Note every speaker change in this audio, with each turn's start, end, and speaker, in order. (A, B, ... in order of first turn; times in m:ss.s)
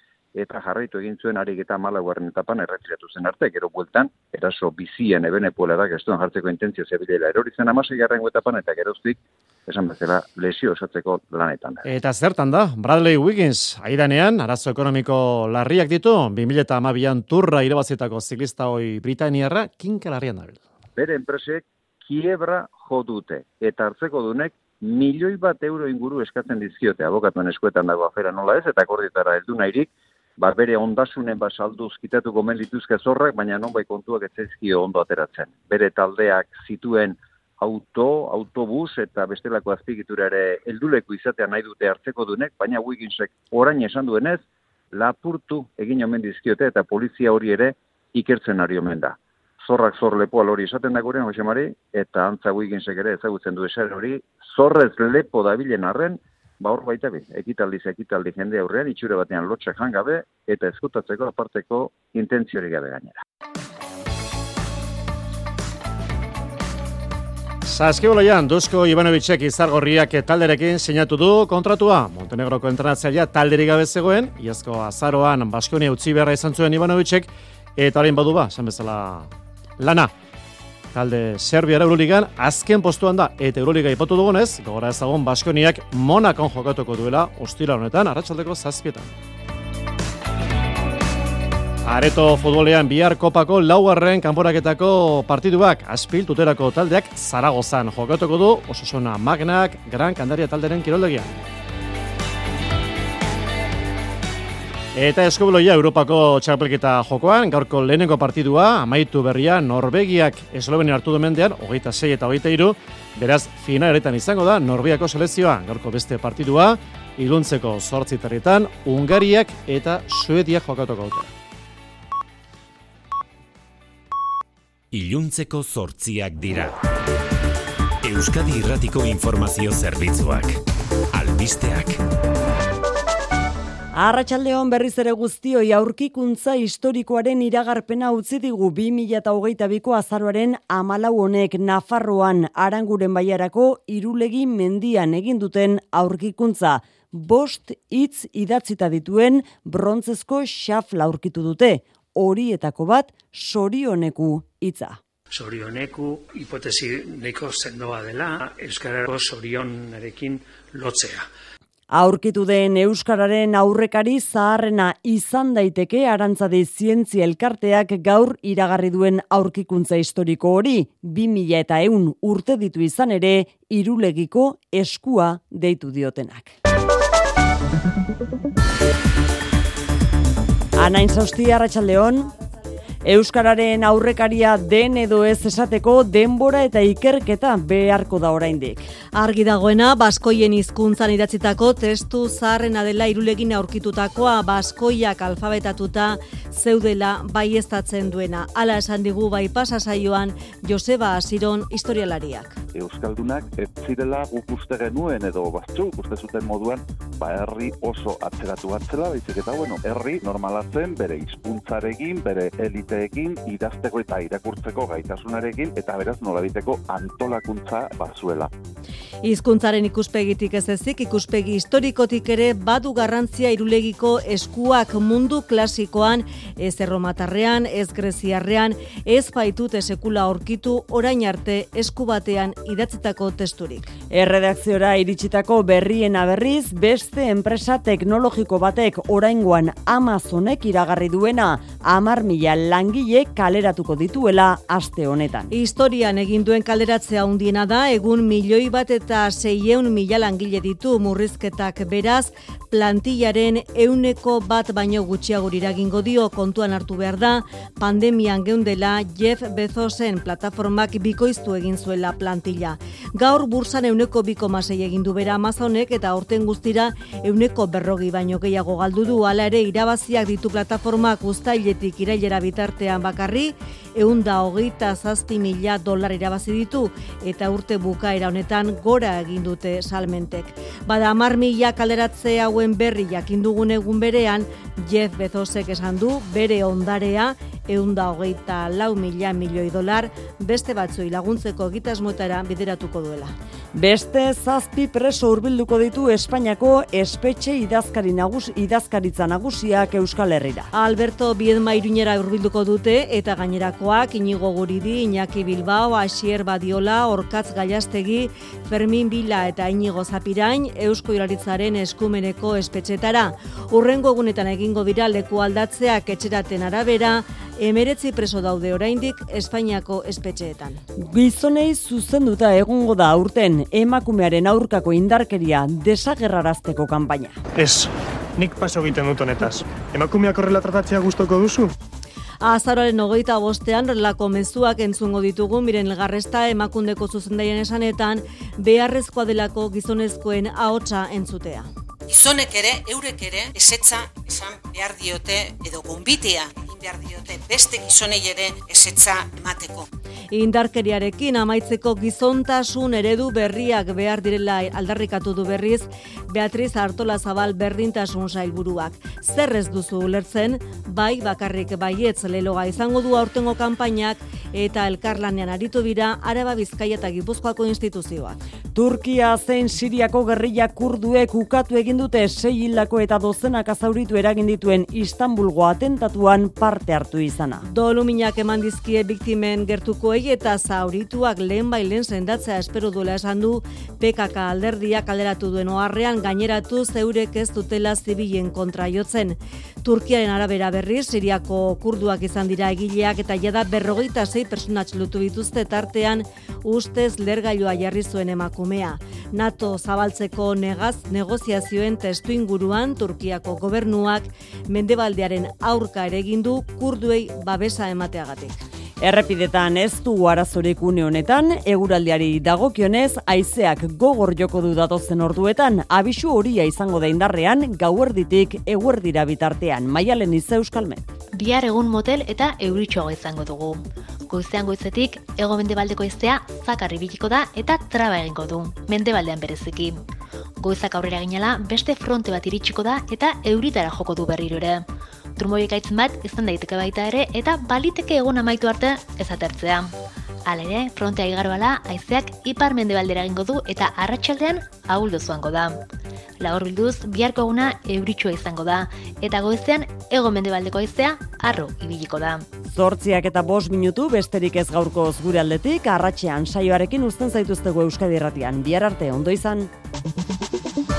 0:00.4-0:11.9 A
0:11.8-0:20.6 B
0:21.0-0:44.4 A
0:44.9-1:03.2 A
1:07.6-1:20.1 B
1:20.9-1:29.1 B
1:31.8-1:41.3 B
1:44.9-2:01.3 B
2:04.9-2:06.8 C
2:08.0-2:10.6 C
2:11.1-2:12.0 C
2:13.9-2:35.0 D
2:35.3-2:41.3 E
2:41.9-2:56.5 D
3:00.8-3:02.3 D
3:03.0-3:08.9 D
3:09.1-3:22.6 F
3:22.7-3:38.5 G
3:39.2-3:53.9 F
3:54.1-4:05.5 D
4:05.5-4:53.3 F
4:53.7-5:00.7 D
5:00.7-5:20.8 F
5:21.0-5:27.4 D
5:27.6-5:31.7 H
5:32.4-5:41.7 F
5:42.1-5:49.9 I
5:50.3-6:08.4 F
6:08.7-6:17.6 D
6:17.6-6:48.6 F
6:49.0-7:01.1 D
7:01.4-7:10.0 J
7:10.6-7:14.8 J
7:15.4-7:19.9 J
7:20.4-7:25.8 J
7:26.4-7:32.4 J
7:32.7-7:39.7 D